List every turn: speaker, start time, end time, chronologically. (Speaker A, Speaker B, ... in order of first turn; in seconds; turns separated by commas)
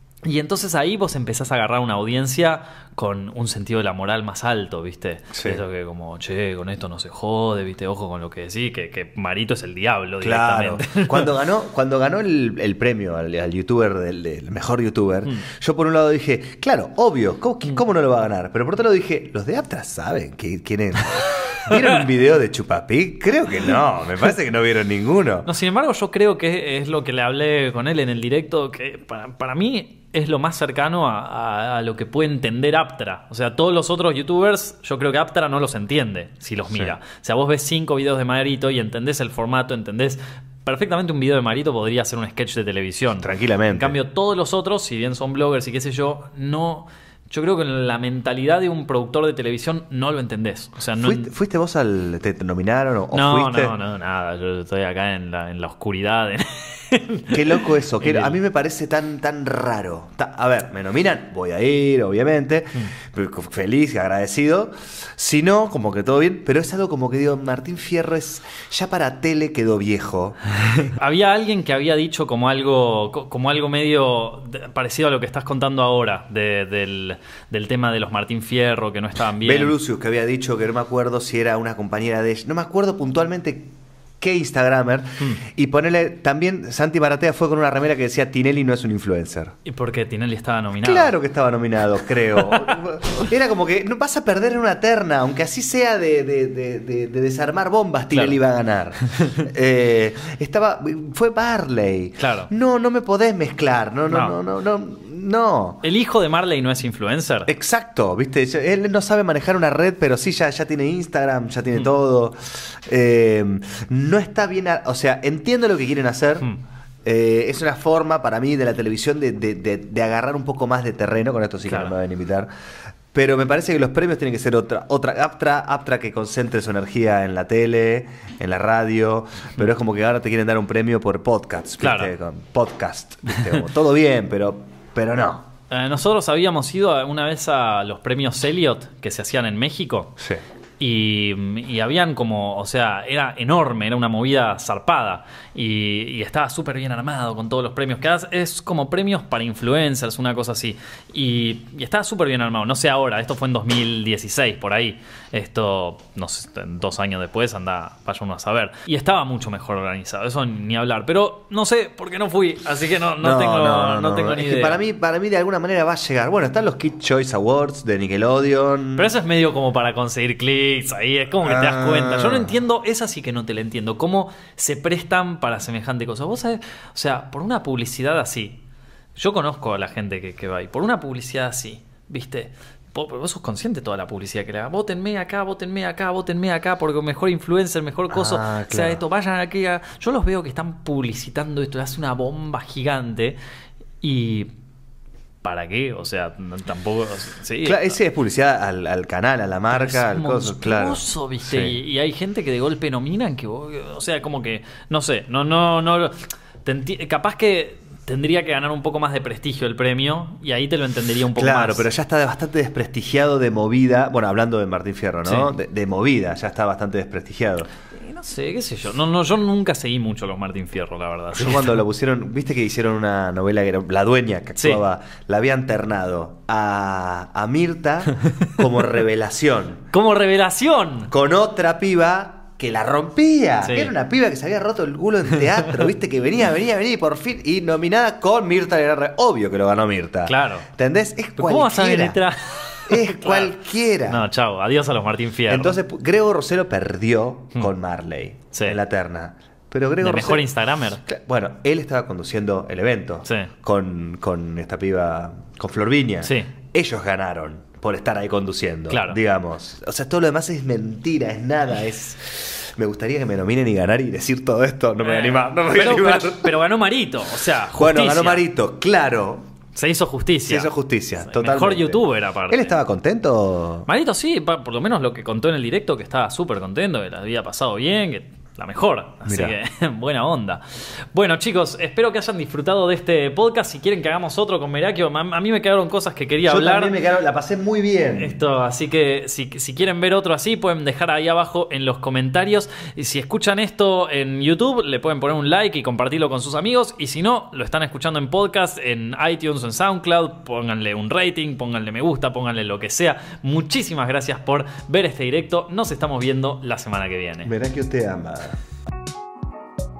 Speaker A: 0.2-11.3, Speaker B: 5.3-5.6, Speaker B: 10.2-25.5, Speaker A: 21.6-22.0, Speaker A: 25.4-51.3, Speaker B: 43.2-44.0, Speaker B: 51.0-53.7, Speaker A: 53.1-58.4, Speaker B: 57.3-70.9, Speaker A: 70.7-79.8, Speaker B: 79.4-89.5, Speaker A: 89.6-91.1, Speaker B: 90.8-105.8, Speaker A: 92.3-93.2, Speaker A: 98.1-98.4, Speaker A: 99.1-99.5, Speaker A: 102.2-102.5, Speaker A: 104.1-104.3, Speaker A: 105.8-107.5, Speaker B: 107.5-116.5, Speaker B: 117.0-122.5, Speaker A: 121.7-121.9, Speaker B: 123.1-135.5, Speaker A: 131.8-132.1, Speaker A: 135.7-140.2, Speaker A: 140.8-164.8, Speaker B: 163.2-169.1, Speaker A: 168.9-178.6, Speaker B: 171.4-172.6, Speaker A: 179.2-193.4, Speaker B: 188.1-189.0, Speaker A: 194.0-194.5, Speaker A: 195.4-198.0, Speaker B: 197.6-201.8, Speaker A: 199.7-211.9, Speaker B: 211.3-217.7, Speaker A: 215.2-215.5, Speaker A: 217.9-221.8, Speaker B: 221.3-229.9, Speaker A: 224.6-224.8, Speaker A: 228.1-228.6, Speaker A: 229.9-231.1, Speaker B: 231.1-242.2, Speaker A: 233.6-233.9, Speaker A: 235.3-235.8, Speaker A: 240.2-240.7, Speaker A: 241.4-245.8, Speaker B: 242.8-244.3, Speaker B: 245.5-250.5, Speaker A: 248.5-248.8, Speaker A: 250.0-251.0, Speaker B: 251.0-266.5, Speaker A: 253.2-253.5, Speaker A: 256.2-256.5, Speaker A: 258.9-259.2, Speaker A: 265.0-268.4, Speaker B: 267.7-269.5, Speaker A: 269.7-270.7, Speaker B: 270.5-273.9, Speaker A: 271.2-272.8, Speaker A: 273.9-286.9, Speaker B: 279.2-279.6, Speaker B: 286.4-288.4, Speaker A: 288.1-307.5, Speaker B: 307.4-308.6